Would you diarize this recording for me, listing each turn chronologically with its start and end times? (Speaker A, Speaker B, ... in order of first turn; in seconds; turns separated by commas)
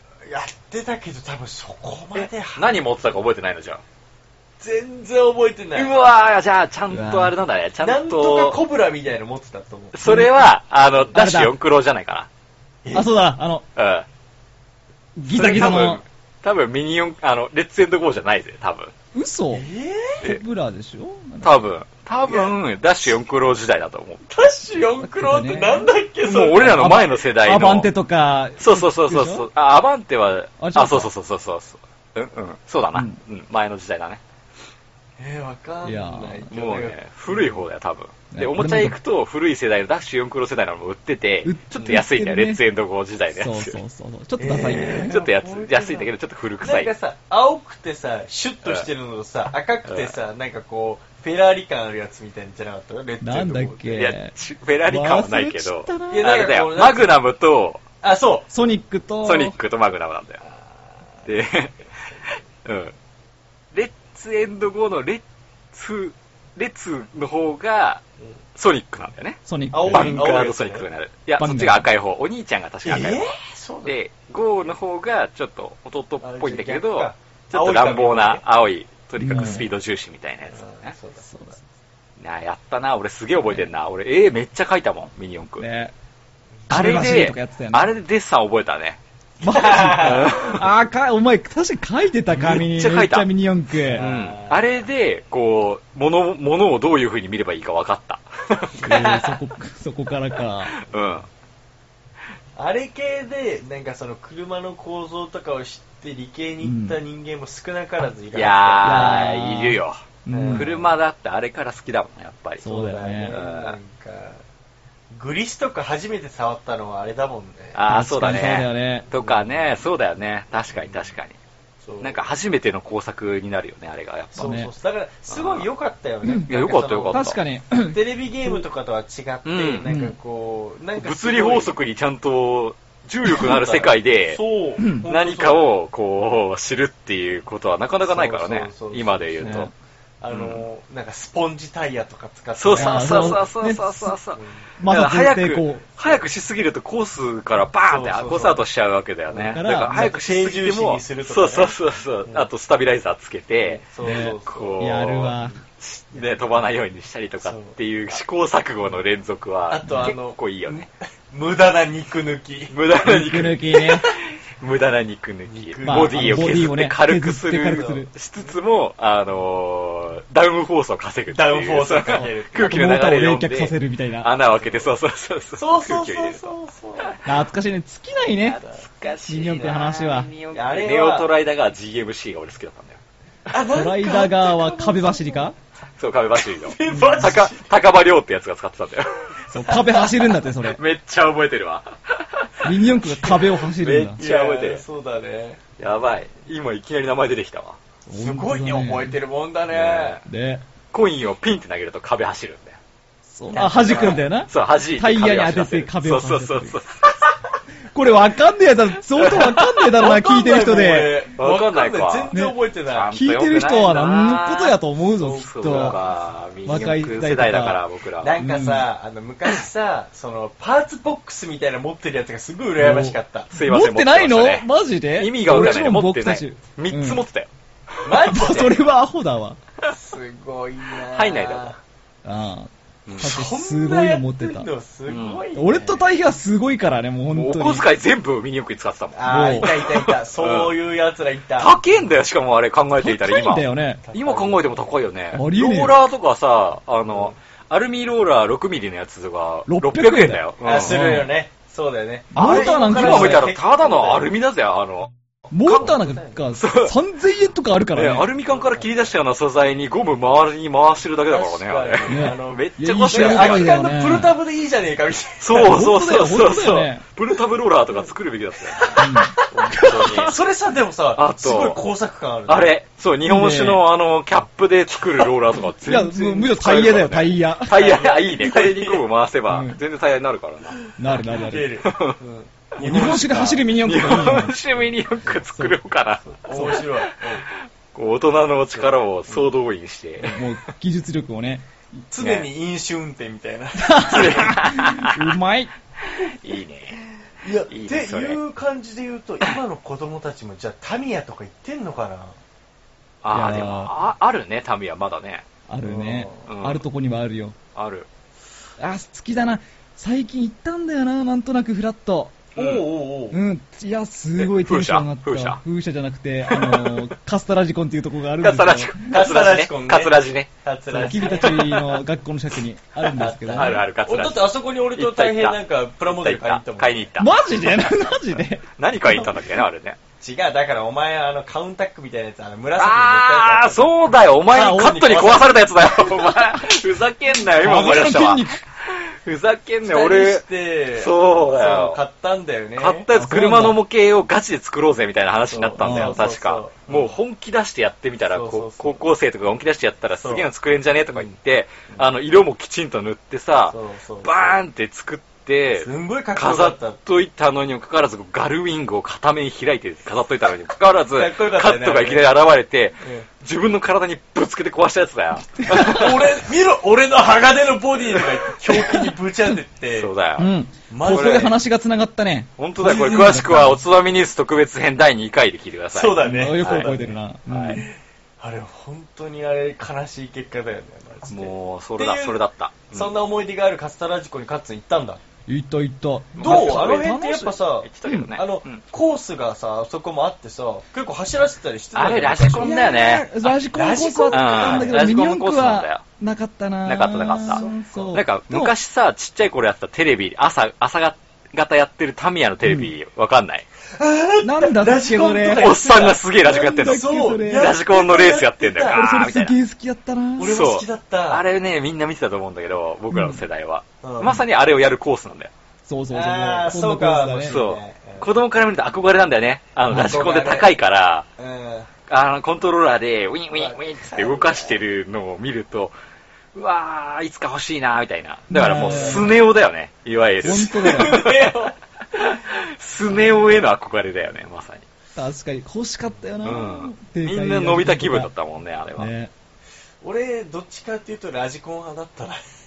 Speaker A: 0.2-2.8, Speaker B: 2.1-3.8, Speaker A: 4.6-5.9, Speaker B: 5.7-8.6, Speaker C: 6.9-7.3, Speaker A: 7.8-10.0, Speaker B: 9.9-12.3, Speaker C: 10.1-10.3, Speaker C: 11.1-11.6, Speaker A: 12.8-13.1, Speaker C: 12.9-13.6, Speaker B: 13.8-14.1, Speaker C: 15.2-16.0, Speaker B: 15.3-18.9, Speaker A: 15.3-16.0, Speaker C: 19.1-19.6, Speaker A: 19.5-20.2, Speaker C: 20.2-21.6, Speaker B: 21.4-24.3, Speaker A: 22.3-22.5, Speaker A: 24.3-26.9, Speaker C: 25.0-29.5, Speaker B: 26.2-27.9, Speaker B: 28.6-34.2, Speaker C: 30.6-31.1, Speaker A: 35.2-37.6, Speaker C: 35.8-36.5, Speaker B: 36.5-43.8, Speaker C: 38.3-39.0, Speaker C: 41.4-42.6, Speaker C: 43.3-45.1, Speaker A: 44.4-54.1, Speaker B: 44.9-46.9, Speaker B: 49.9-50.1, Speaker C: 53.2-54.3, Speaker B: 53.9-57.8, Speaker C: 54.9-56.3, Speaker A: 56.1-57.2, Speaker A: 58.0-58.5, Speaker C: 58.5-59.6, Speaker B: 59.2-60.4, Speaker B: 61.2-61.7, Speaker B: 62.3-62.9, Speaker B: 63.7-68.0, Speaker B: 68.5-73.3, Speaker C: 69.5-70.2, Speaker A: 69.7-70.8, Speaker C: 71.4-71.9, Speaker A: 72.8-74.0, Speaker B: 73.8-80.9, Speaker A: 76.2-78.4, Speaker C: 79.2-79.7, Speaker A: 79.3-79.7, Speaker A: 80.5-81.6, Speaker B: 82.2-85.7, Speaker C: 85.6-85.9, Speaker C: 86.7-87.9, Speaker B: 86.7-89.0, Speaker C: 89.4-94.1, Speaker A: 89.5-90.3, Speaker B: 89.5-90.6, Speaker B: 92.3-93.3, Speaker A: 93.9-94.8, Speaker B: 93.9-99.0, Speaker A: 98.8-99.4, Speaker C: 98.8-100.7, Speaker B: 100.7-101.3, Speaker A: 102.5-109.3, Speaker C: 106.6-107.0, Speaker B: 108.3-112.7, Speaker C: 108.8-110.8, Speaker A: 110.3-110.8, Speaker C: 112.6-113.4, Speaker A: 112.6-114.4, Speaker B: 113.3-113.8, Speaker A: 115.1-117.8, Speaker B: 117.7-121.4, Speaker C: 117.9-119.1, Speaker A: 119.1-119.6, Speaker A: 121.8-122.2, Speaker B: 122.0-124.6, Speaker A: 124.3-131.8, Speaker C: 124.4-124.7, Speaker B: 125.3-125.7, Speaker B: 126.4-127.4, Speaker C: 127.1-128.6, Speaker B: 129.4-129.9, Speaker C: 129.8-130.1, Speaker B: 131.0-134.4, Speaker A: 133.3-135.7, Speaker C: 134.8-135.1, Speaker B: 135.1-139.7, Speaker A: 138.0-139.7, Speaker C: 139.4-139.7, Speaker A: 140.2-143.5, Speaker B: 140.3-140.6, Speaker B: 142.6-160.9, Speaker C: 142.7-144.1, Speaker A: 144.4-144.7, Speaker C: 144.8-145.8, Speaker A: 147.8-148.6, Speaker A: 149.3-151.7, Speaker C: 149.5-150.1, Speaker A: 153.6-155.5, Speaker C: 154.0-155.6, Speaker A: 156.2-156.6, Speaker A: 157.4-157.8, Speaker A: 159.7-162.7, Speaker C: 159.8-160.1, Speaker B: 162.7-177.2, Speaker C: 163.0-164.1, Speaker A: 165.5-166.8, Speaker C: 165.8-168.1, Speaker A: 167.6-168.0, Speaker A: 171.3-172.9, Speaker C: 172.6-174.3, Speaker A: 175.6-177.2, Speaker C: 177.2-178.6, Speaker B: 178.4-183.0, Speaker C: 179.3-180.3, Speaker A: 180.5-181.3, Speaker A: 183.5-185.5, Speaker C: 183.7-185.6, Speaker B: 186.0-189.3, Speaker A: 186.6-187.8, Speaker A: 189.5-190.3, Speaker C: 189.5-190.8, Speaker B: 190.6-192.7, Speaker C: 192.6-194.2, Speaker A: 193.2-195.6, Speaker B: 194.2-194.8, Speaker B: 195.8-197.8, Speaker C: 198.1-199.2, Speaker A: 198.1-200.2, Speaker B: 199.7-200.2, Speaker C: 200.3-200.6, Speaker B: 200.9-202.8, Speaker C: 203.3-206.8, Speaker A: 203.5-204.3, Speaker B: 203.8-207.3, Speaker C: 207.9-211.2, Speaker B: 209.2-209.6, Speaker A: 209.9-213.1, Speaker B: 211.4-212.3, Speaker C: 212.3-212.6, Speaker B: 212.9-218.3, Speaker C: 213.1-215.9, Speaker A: 215.2-216.0, Speaker C: 216.6-217.8, Speaker A: 218.2-223.5, Speaker C: 218.4-218.8, Speaker C: 222.8-227.2, Speaker B: 223.5-227.5, Speaker A: 228.0-228.8, Speaker C: 228.1-229.6, Speaker A: 229.9-231.8, Speaker B: 231.1-231.8, Speaker C: 232.2-234.7, Speaker A: 233.2-236.1, Speaker B: 235.1-235.4, Speaker C: 235.6-237.8, Speaker B: 237.3-240.7, Speaker A: 239.1-241.8, Speaker C: 239.3-239.8, Speaker B: 241.6-251.3, Speaker C: 243.0-244.0, Speaker A: 244.1-244.8, Speaker C: 245.3-245.9, Speaker A: 247.1-247.3, Speaker C: 249.7-251.3, Speaker A: 250.6-254.3, Speaker C: 252.3-253.4, Speaker B: 252.3-255.1, Speaker C: 255.5-258.3, Speaker B: 255.6-255.9, Speaker A: 255.8-256.4, Speaker B: 256.5-256.9, Speaker B: 257.9-263.8, Speaker A: 258.5-258.9, Speaker A: 261.3-265.7, Speaker C: 262.1-264.3, Speaker B: 265.4-270.4, Speaker C: 265.5-267.0, Speaker A: 268.7-272.7, Speaker C: 269.0-270.3, Speaker B: 271.1-271.8, Speaker B: 272.5-280.8, Speaker C: 273.3-273.8, Speaker C: 275.9-277.7, Speaker A: 277.7-279.1, Speaker C: 279.5-279.8, Speaker A: 280.9-284.4, Speaker C: 281.0-281.8, Speaker B: 281.8-282.2, Speaker C: 282.8-284.6, Speaker B: 282.8-290.4, Speaker A: 286.3-287.4, Speaker A: 288.7-289.5, Speaker C: 290.3-291.6, Speaker A: 292.1-294.6, Speaker B: 292.2-292.5, Speaker C: 293.8-295.7, Speaker B: 294.1-295.3, Speaker B: 296.0-297.0, Speaker A: 297.4-302.4, Speaker B: 297.7-298.4, Speaker B: 303.2-305.4, Speaker C: 303.3-303.9, Speaker C: 305.7-307.6, Speaker A: 305.8-306.4, Speaker B: 306.4-306.8, Speaker B: 307.7-308.1, Speaker C: 308.8-312.4, Speaker B: 312.6-312.8, Speaker A: 312.6-313.4, Speaker C: 313.3-319.0, Speaker B: 314.4-315.6, Speaker B: 316.5-317.1, Speaker B: 318.4-320.5, Speaker A: 319.1-321.9, Speaker C: 320.9-323.8, Speaker B: 321.1-321.8, Speaker A: 323.1-327.1, Speaker B: 323.5-327.4, Speaker C: 327.2-329.3, Speaker B: 328.8-330.0, Speaker A: 330.2-333.9, Speaker B: 332.8-342.0, Speaker A: 334.5-335.6, Speaker C: 334.5-335.4, Speaker C: 337.5-338.6, Speaker A: 339.8-343.1, Speaker B: 342.8-366.2, Speaker C: 343.1-343.8, Speaker A: 345.5-347.1, Speaker C: 345.8-346.2, Speaker A: 348.3-349.0, Speaker A: 350.2-350.5, Speaker A: 353.7-354.6, Speaker A: 355.7-357.0, Speaker A: 361.1-362.4, Speaker A: 363.0-363.3, Speaker C: 365.6-366.2, Speaker A: 365.7-370.1, Speaker B: 369.9-370.5, Speaker C: 370.4-373.8, Speaker A: 370.9-371.6, Speaker B: 371.1-371.5, Speaker B: 372.6-376.9, Speaker A: 372.9-373.3, Speaker A: 375.9-377.1, Speaker C: 376.2-377.9, Speaker B: 377.5-377.8, Speaker A: 377.7-382.4, Speaker B: 381.3-383.1, Speaker A: 382.9-385.2, Speaker C: 385.5-388.3, Speaker B: 386.4-387.2, Speaker A: 386.4-393.1, Speaker B: 387.8-388.8, Speaker B: 391.9-393.5, Speaker C: 392.4-398.7, Speaker A: 393.7-395.1, Speaker B: 394.3-396.0, Speaker B: 396.9-403.6, Speaker A: 397.4-398.2, Speaker C: 402.6-402.9, Speaker A: 403.9-409.1, Speaker C: 404.4-405.8, Speaker B: 405.6-409.6, Speaker C: 406.4-407.7, Speaker C: 408.9-410.6, Speaker A: 410.4-411.4, Speaker B: 410.4-415.5, Speaker C: 413.1-413.4, Speaker A: 414.0-414.4, Speaker C: 415.9-417.6, Speaker A: 416.1-418.3, Speaker B: 417.5-421.3, Speaker A: 419.9-420.7, Speaker A: 421.4-421.9, Speaker B: 422.1-425.9, Speaker A: 423.5-424.9, Speaker B: 426.5-431.5, Speaker C: 428.5-429.4, Speaker A: 428.9-429.4, Speaker C: 430.4-431.2, Speaker A: 430.4-431.8, Speaker B: 432.1-434.9, Speaker C: 435.1-438.3, Speaker B: 436.4-439.1, Speaker C: 438.9-439.3, Speaker A: 440.0-442.5